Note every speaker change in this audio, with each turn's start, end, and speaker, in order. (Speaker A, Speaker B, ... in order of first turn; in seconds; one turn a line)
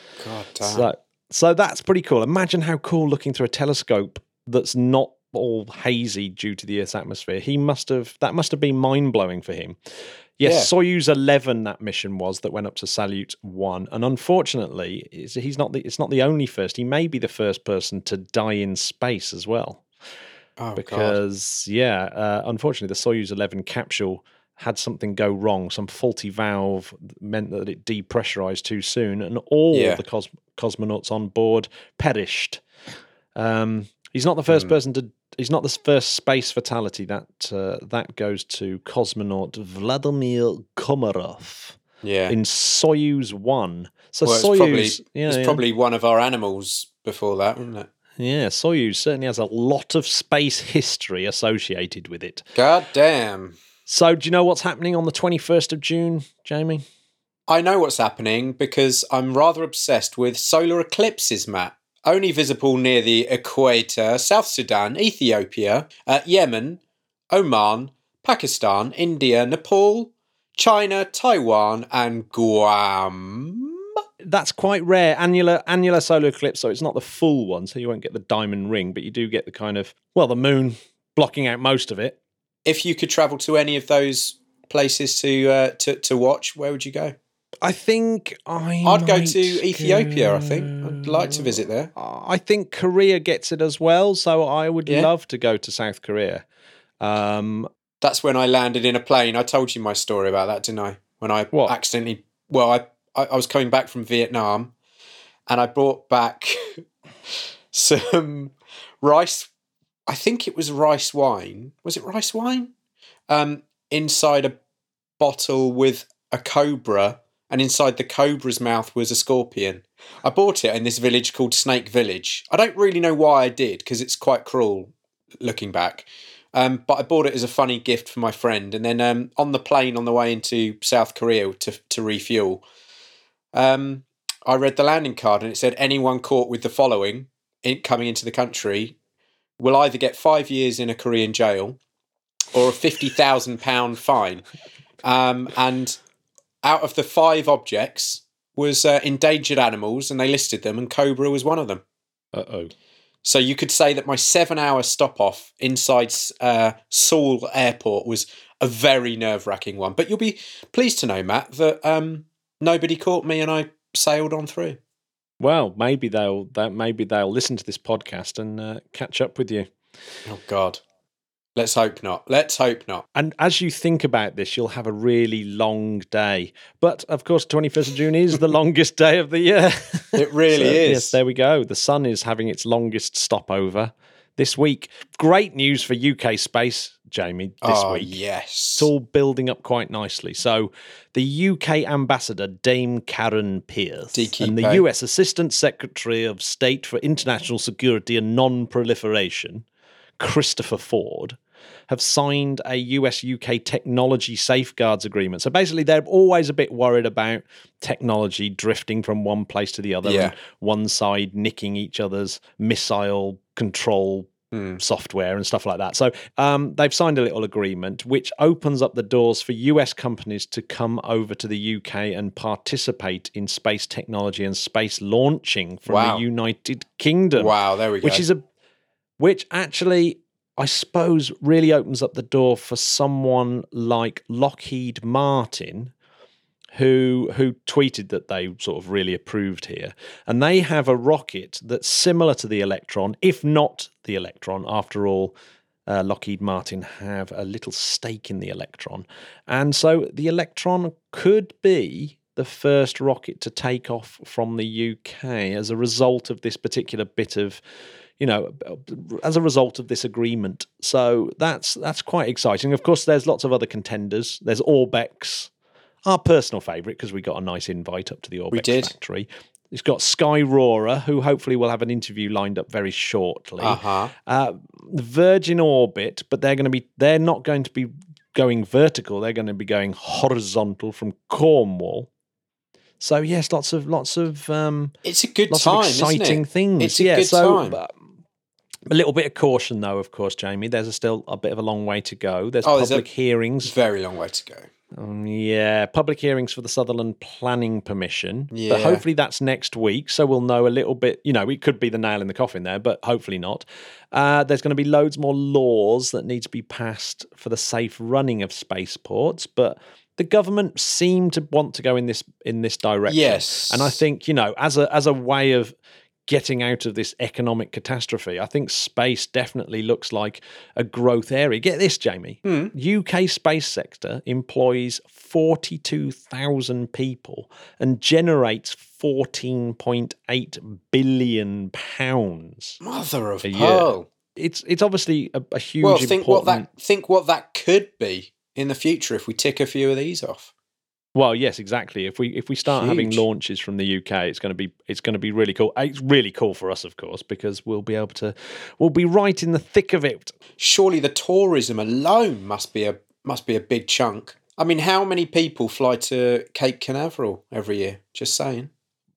Speaker A: 0.2-0.9
Speaker B: 0.6-9.8
Speaker B: 10.4-19.8
Speaker A: 10.4-10.7
Speaker A: 20.6-21.2
Speaker B: 20.8-32.6
Speaker A: 29.7-30.0
Speaker B: 33.4-45.6
Speaker A: 34.5-34.7
Speaker A: 42.0-42.4
Speaker A: 44.2-47.9
Speaker B: 48.2-52.5
Speaker A: 52.6-53.6
Speaker B: 53.9-56.8
Speaker A: 57.5-66.8
Speaker A: 67.3-73.8
Speaker B: 74.2-82.2
Speaker A: 82.7-87.2
Speaker B: 87.6-96.5
Speaker A: 88.8-91.9
Speaker B: 97.0-97.7
Speaker A: 98.0-104.7
Speaker A: 105.5-106.9
Speaker A: 107.7-109.5
Speaker A: 110.1-112.7
Speaker A: 113.3-114.6
Speaker A: 115.2-132.6
Speaker A: 133.5-139.0
Speaker A: 139.6-141.8
Speaker A: 142.5-144.4
Speaker A: 145.0-146.0
Speaker A: 146.6-151.8
Speaker B: 152.3-152.7
Speaker A: 153.2-164.8
Speaker B: 165.4-169.7
Speaker A: 170.3-170.8
Speaker A: 171.6-173.1
Speaker B: 173.2-188.2
Speaker A: 180.2-181.2
Speaker A: 187.6-188.9
Speaker B: 188.8-199.7
Speaker A: 194.1-194.8
Speaker B: 200.2-201.4
Speaker B: 201.9-228.4
Speaker A: 210.0-210.3
Speaker A: 214.5-214.8
Speaker A: 225.9-226.2
Speaker A: 227.4-228.2
Speaker B: 229.2-235.9
Speaker B: 236.8-245.4
Speaker B: 245.9-257.6
Speaker B: 258.2-265.5
Speaker B: 266.1-282.1
Speaker A: 268.5-268.9
Speaker A: 273.6-274.1
Speaker B: 283.0-284.9
Speaker A: 285.0-287.8
Speaker B: 285.5-287.9
Speaker B: 288.9-293.7
Speaker A: 292.6-293.1
Speaker A: 293.6-294.7
Speaker B: 294.9-315.8
Speaker A: 298.5-299.0
Speaker A: 313.1-314.0
Speaker B: 316.3-332.8
Speaker A: 322.4-322.7
Speaker A: 332.8-334.1
Speaker B: 333.4-336.7
Speaker A: 335.8-340.5
Speaker B: 341.1-350.4
Speaker A: 342.7-343.2
Speaker A: 350.6-358.7